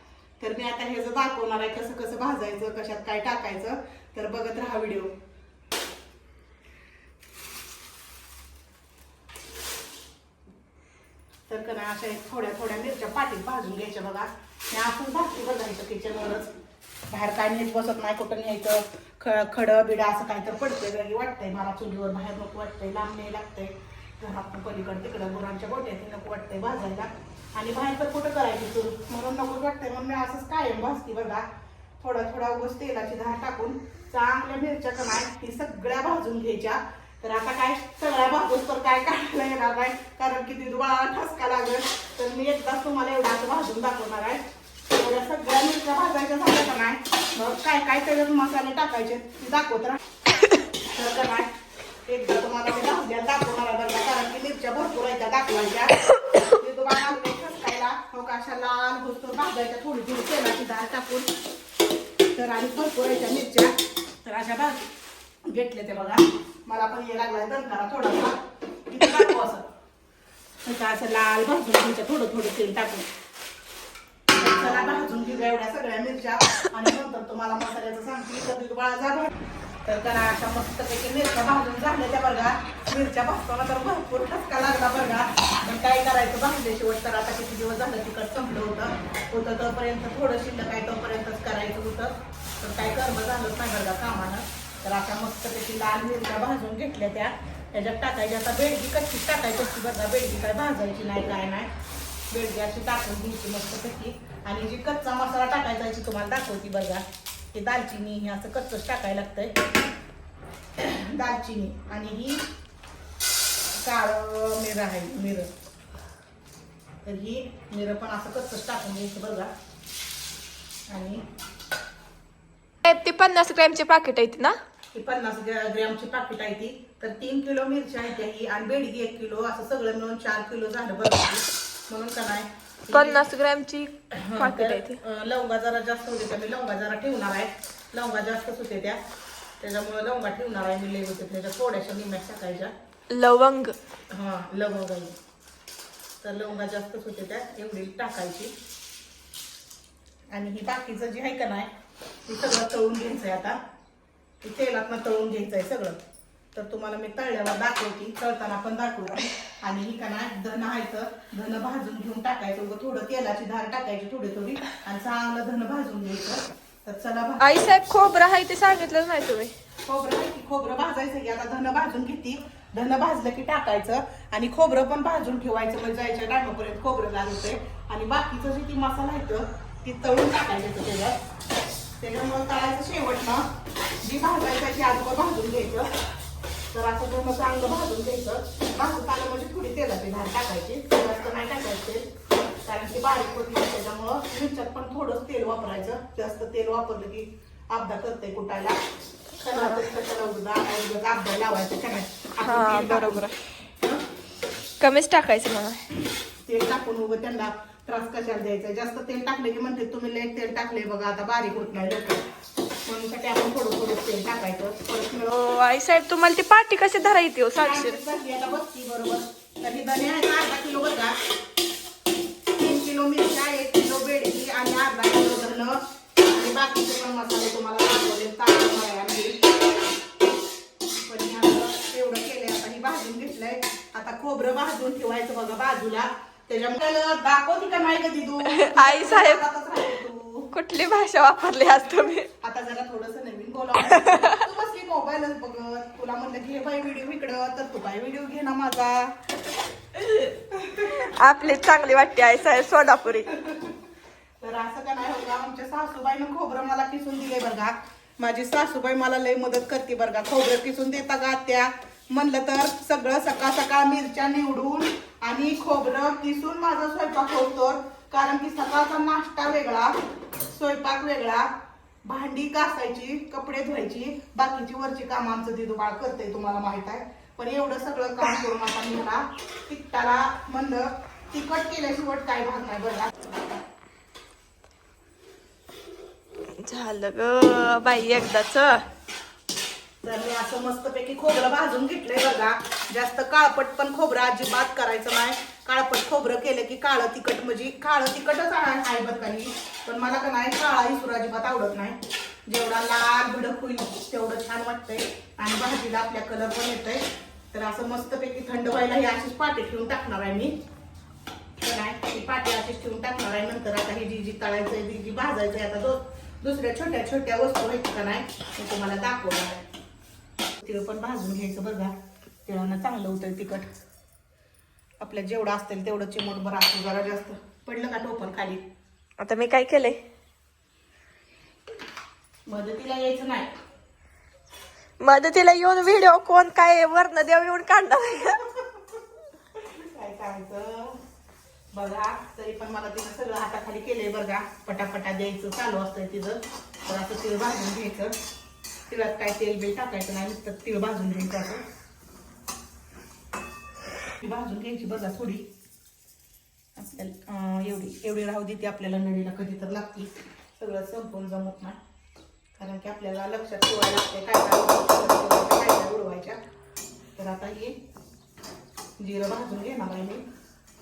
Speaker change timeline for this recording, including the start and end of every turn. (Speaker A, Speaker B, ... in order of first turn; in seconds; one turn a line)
Speaker A: 0.4-5.1
Speaker A: 11.5-16.5
Speaker A: 17.1-31.4
Speaker A: 32.0-50.0
Speaker A: 50.9-51.5
Speaker A: 52.1-61.3
Speaker A: 62.3-64.9
Speaker A: 65.5-69.7
Speaker A: 70.6-73.1
Speaker A: 74.3-79.3
Speaker A: 79.8-101.7
Speaker A: 102.3-109.5
Speaker A: 110.8-112.4
Speaker A: 113.7-115.5
Speaker A: 117.0-119.5
Speaker A: 120.9-121.2
Speaker B: 122.8-124.5
Speaker A: 124.9-133.2
Speaker B: 132.9-135.0
Speaker A: 134.1-139.0
Speaker A: 139.6-142.7
Speaker B: 143.1-143.8
Speaker A: 144.1-145.2
Speaker A: 146.2-148.5
Speaker A: 150.3-151.7
Speaker A: 152.2-153.6
Speaker A: 154.4-156.0
Speaker A: 156.5-167.7
Speaker B: 167.4-169.5
Speaker A: 169.9-181.2
Speaker A: 182.0-183.4
Speaker A: 184.0-185.9
Speaker A: 186.7-192.0
Speaker A: 192.7-198.8
Speaker A: 199.4-204.0
Speaker B: 199.5-199.9
Speaker B: 202.4-203.4
Speaker B: 204.8-205.8
Speaker A: 206.4-212.2
Speaker A: 212.9-215.3
Speaker B: 215.3-218.0
Speaker A: 217.6-221.1
Speaker A: 222.5-229.4
Speaker A: 230.9-240.5
Speaker B: 238.4-239.4
Speaker B: 240.5-242.3
Speaker A: 242.4-249.1
Speaker B: 243.8-244.4
Speaker A: 250.5-251.0
Speaker B: 250.8-253.3
Speaker A: 253.3-253.8
Speaker A: 254.4-269.9
Speaker A: 270.5-271.5
Speaker A: 272.1-283.3
Speaker B: 286.6-288.9
Speaker A: 290.0-310.6
Speaker A: 311.6-319.6
Speaker A: 320.6-321.9
Speaker A: 322.4-323.7
Speaker A: 325.0-328.6
Speaker B: 329.2-330.0
Speaker A: 332.5-333.5
Speaker B: 335.0-338.4
Speaker A: 339.6-341.0
Speaker A: 341.7-348.1
Speaker A: 348.9-351.6
Speaker A: 354.2-355.5
Speaker A: 356.8-361.8
Speaker A: 362.6-366.4
Speaker A: 367.1-367.8
Speaker A: 369.0-370.2